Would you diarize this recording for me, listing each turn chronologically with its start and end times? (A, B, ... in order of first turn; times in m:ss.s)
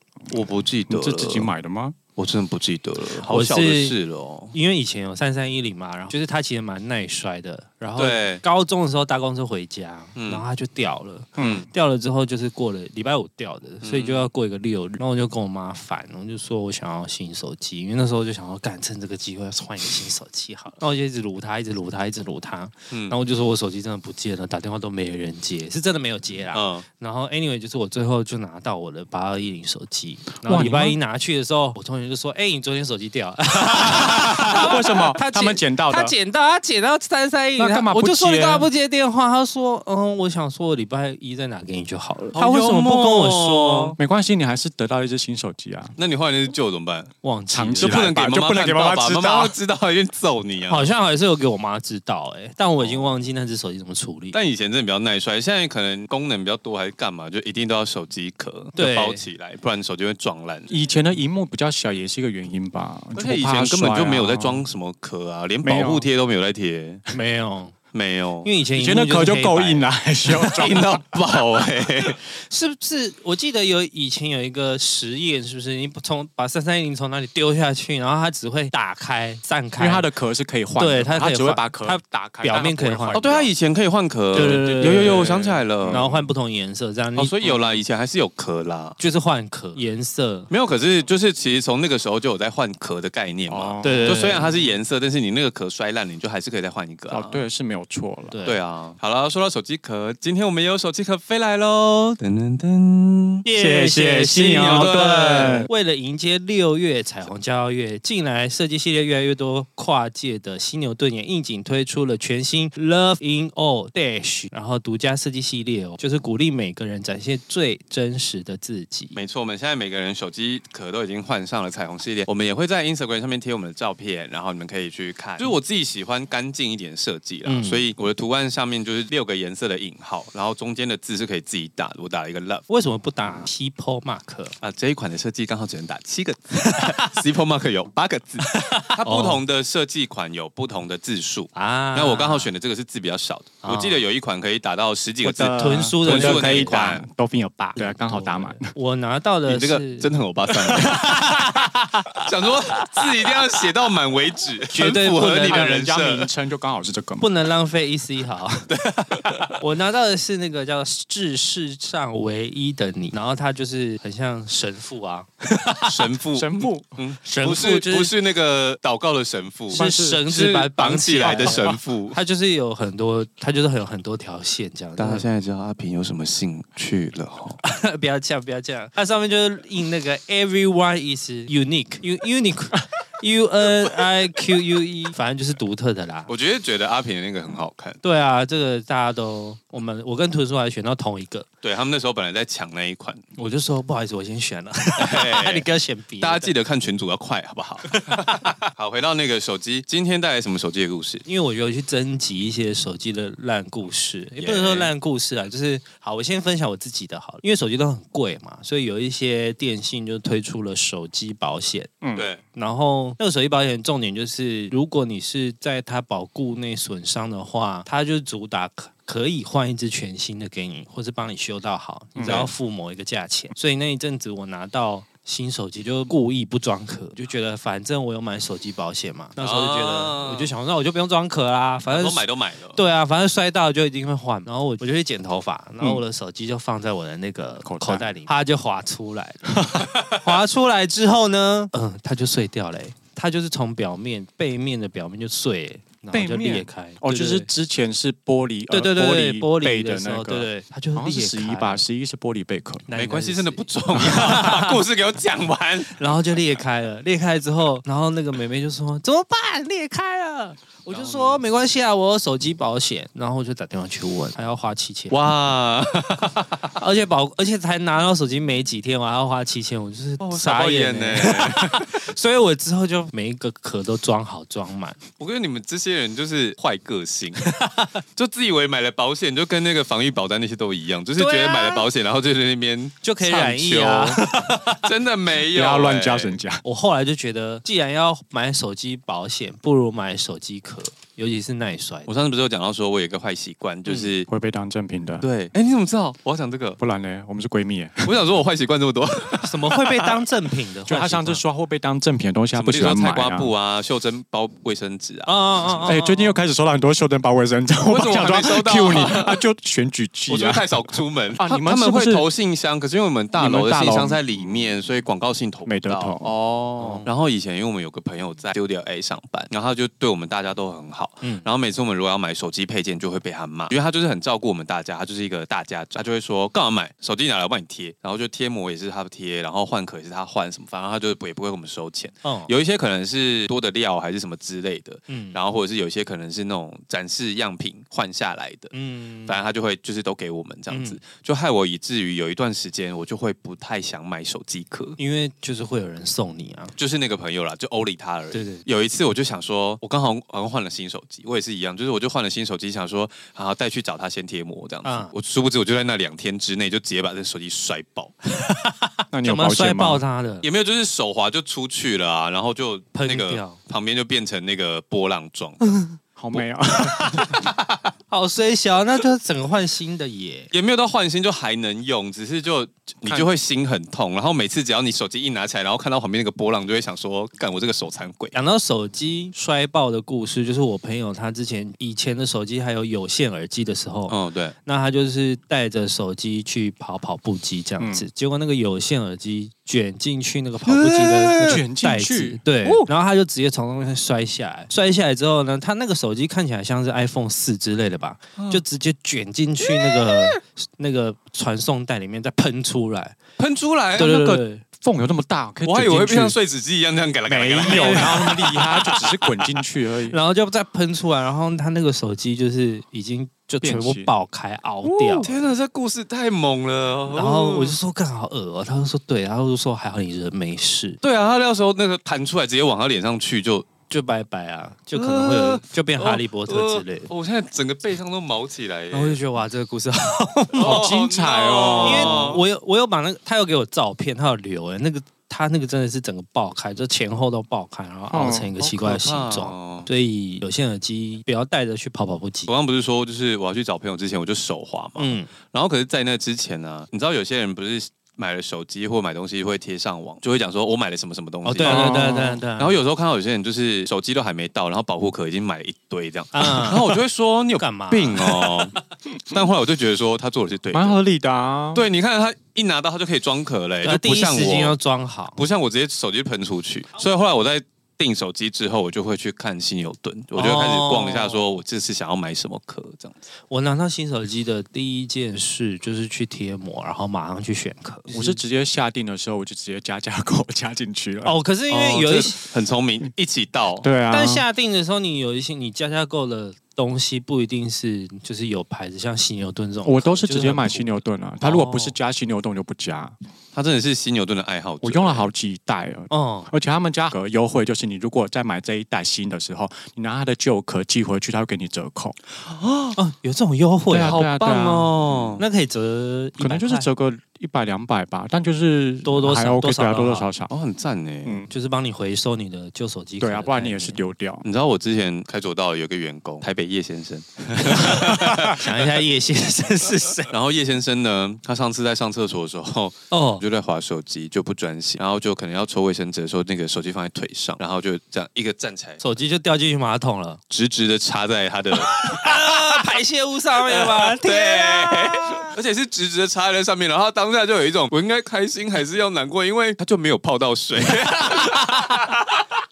0:00.3-0:01.5 A
0:00.9-0:02.0 B
0:02.2-0:04.5 A
0:03.2-0:04.0 C
0:04.5-0:44.0 C
0:08.0-0:08.4 A
0:10.2-0:10.4 A
0:11.4-0:11.7 B
0:13.8-0:14.3 A
0:26.5-0:26.8 A
0:30.4-0:31.0 B
0:33.8-0:36.2 B
0:37.6-0:38.7 B
0:42.3-0:44.0 A
0:44.0-0:46.0 B
0:46.0-0:47.1 A
0:47.2-0:48.0 C
0:47.5-0:49.5 B
0:47.8-0:50.9 A
0:50.7-0:54.4 C
0:52.8-0:53.1 A
0:54.3-1:00.8 A
0:58.8-0:59.2 C
1:00.7-1:04.7 B
1:03.2-1:07.1 A
1:05.6-1:06.1 B
1:07.1-1:07.8 C
1:07.9-1:08.5 A
1:08.4-1:09.9 C
1:08.8-1:11.0 B
1:10.4-1:12.2 A
1:12.3-1:20.1 C
1:19.8-1:23.5 B
1:20.8-1:23.3 C
1:23.1-1:26.1 A
1:24.3-1:27.4 C
1:24.3-1:26.3 B
1:27.2-1:29.0 A
1:29.0-1:30.5 C
1:30.5-1:37.4 A
1:33.5-1:34.3 B
1:33.8-1:34.5 C
1:37.1-1:38.3 B
1:38.3-1:38.6 C
1:38.4-1:43.4 A
1:43.4-1:59.2 C
1:43.6-1:45.7 B
1:44.4-1:45.6 A
1:59.1-2:12.7 A
2:07.4-2:07.9 C
2:12.7-2:14.6 C
2:14.6-2:27.1 A
2:16.7-2:17.2 C
2:18.4-2:19.4 C
2:21.5-2:22.5 C
2:23.6-2:24.0 C
2:25.2-2:28.7 B
2:25.6-2:26.9 C
2:27.8-2:33.1 C
2:29.5-2:31.3 A
2:32.2-2:36.3 A
2:34.7-2:35.9 C
2:35.5-2:37.3 B
2:37.2-2:38.7 C
2:38.7-2:39.6 A
2:39.6-2:46.0 C
2:45.8-2:52.2 A
2:46.3-2:46.9 B
2:47.2-2:48.1 C
2:49.7-2:55.3 C
2:49.7-2:50.3 B
2:51.2-2:51.8 B
2:55.0-2:57.6 A
2:57.6-3:06.3 C
3:06.3-3:08.0 A
3:08.0-3:11.5 C
3:11.6-3:13.2 A
3:13.4-3:16.5 C
3:15.0-3:15.6 A
3:16.2-3:21.2 A
3:17.9-3:18.5 C
3:21.2-3:31.9 C
3:24.4-3:24.9 A
3:32.0-3:32.3 B
3:32.2-3:32.4 A
3:32.5-4:07.5 C
3:42.2-3:42.5 B
3:42.2-3:42.5 A
3:49.4-3:50.5 A
3:51.9-3:52.8 A
3:57.6-3:58.1 B
3:59.9-4:00.3 A
4:06.1-4:12.9 B
4:08.7-4:11.8 C
4:12.9-4:14.8 C
4:12.9-4:16.6 A
4:16.0-4:25.2 C
4:20.9-4:21.4 A
4:25.1-4:26.6 A
4:26.8-4:35.0 C
4:30.2-4:31.9 A
4:35.2-4:37.5 A
4:37.4-4:38.0 C
4:38.2-4:46.4 A
4:41.2-4:41.9 C
4:43.0-4:44.8 C
4:45.5-4:46.6 B
4:46.6-4:52.1 C
4:52.1-4:54.3 A
4:53.9-4:54.1 C
4:54.3-4:55.3 B
4:55.2-4:56.8 A
4:56.8-4:58.2 B
4:58.0-5:00.1 A
4:59.4-5:01.4 C
5:00.8-5:03.5 B
5:02.6-5:05.8 A
5:05.2-5:06.4 C
5:05.8-5:12.3 B
5:07.9-5:09.4 A
5:10.3-5:38.7 A
5:13.4-5:14.7 B
5:15.6-5:16.3 B
5:16.8-5:17.1 C
5:32.2-5:32.5 C
5:35.1-5:35.4 C
5:38.7-5:39.4 C
5:39.3-5:45.0 A
5:40.7-5:41.0 C
5:45.0-5:46.8 C
5:46.8-5:58.1 A
5:48.3-5:48.6 C
5:54.8-5:55.1 C
5:58.3-6:00.4 C
5:59.1-6:00.0 B
6:00.4-6:05.8 A
6:02.9-6:03.6 C
6:05.6-6:06.0 C
6:06.2-6:07.4 B
6:06.3-6:07.9 A
6:06.9-6:07.5 C
6:08.1-6:10.5 C
6:10.5-6:18.4 A
6:18.3-6:43.2 C
6:24.1-6:24.6 A
6:27.8-6:28.0 B
6:30.6-6:31.6 A
6:31.4-6:32.4 B
6:38.4-6:38.6 A
6:39.7-6:40.4 A
6:43.4-6:44.4 A
6:44.0-6:44.6 C
6:44.8-6:46.4 B
6:45.6-6:49.5 A
6:47.3-6:50.2 B
6:47.6-6:48.5 C
6:50.1-6:55.4 C
6:53.6-6:54.1 B
6:54.8-6:57.8 A
6:57.1-7:01.0 C
7:01.0-7:03.7 A
7:03.9-7:07.1 C
7:05.0-7:09.2 A
7:08.9-7:10.8 C
7:10.6-7:12.4 A
7:10.6-7:12.3 B
7:11.8-7:22.5 C
7:18.1-7:18.5 B
7:18.6-7:19.9 A
7:22.5-7:41.0 A
7:25.0-7:25.3 C
7:31.4-7:32.8 C
7:31.6-7:32.4 B
7:36.3-7:37.0 C
7:37.6-7:38.6 C
7:40.7-7:41.9 B
7:41.7-7:44.8 A
7:43.8-7:45.4 C
7:45.4-7:53.2 A
7:50.4-7:51.4 C
7:53.5-7:58.4 C
7:58.1-8:01.3 B
8:01.2-8:02.4 C
8:01.7-8:03.9 A
8:03.8-8:04.4 B
8:04.1-8:12.0 C
8:09.8-8:13.1 B
8:13.5-8:15.3 A
8:14.8-8:22.2 B
8:16.1-8:16.5 C
8:22.4-8:23.0 A
8:23.0-8:24.4 C
8:23.9-8:25.4 B
8:24.1-8:25.4 A
8:25.4-8:26.9 C
8:26.4-8:30.5 B
8:29.0-8:30.3 C
8:30.5-8:31.4 A
8:31.5-8:34.0 C
8:33.2-8:34.4 B
8:34.4-8:38.9 A
8:37.7-8:40.3 C
8:40.3-8:49.0 A
8:43.1-8:43.4 C
8:49.0-8:50.4 C
8:50.5-8:52.9 A
8:51.8-8:55.5 C
8:53.7-9:02.5 A
9:01.0-9:02.2 C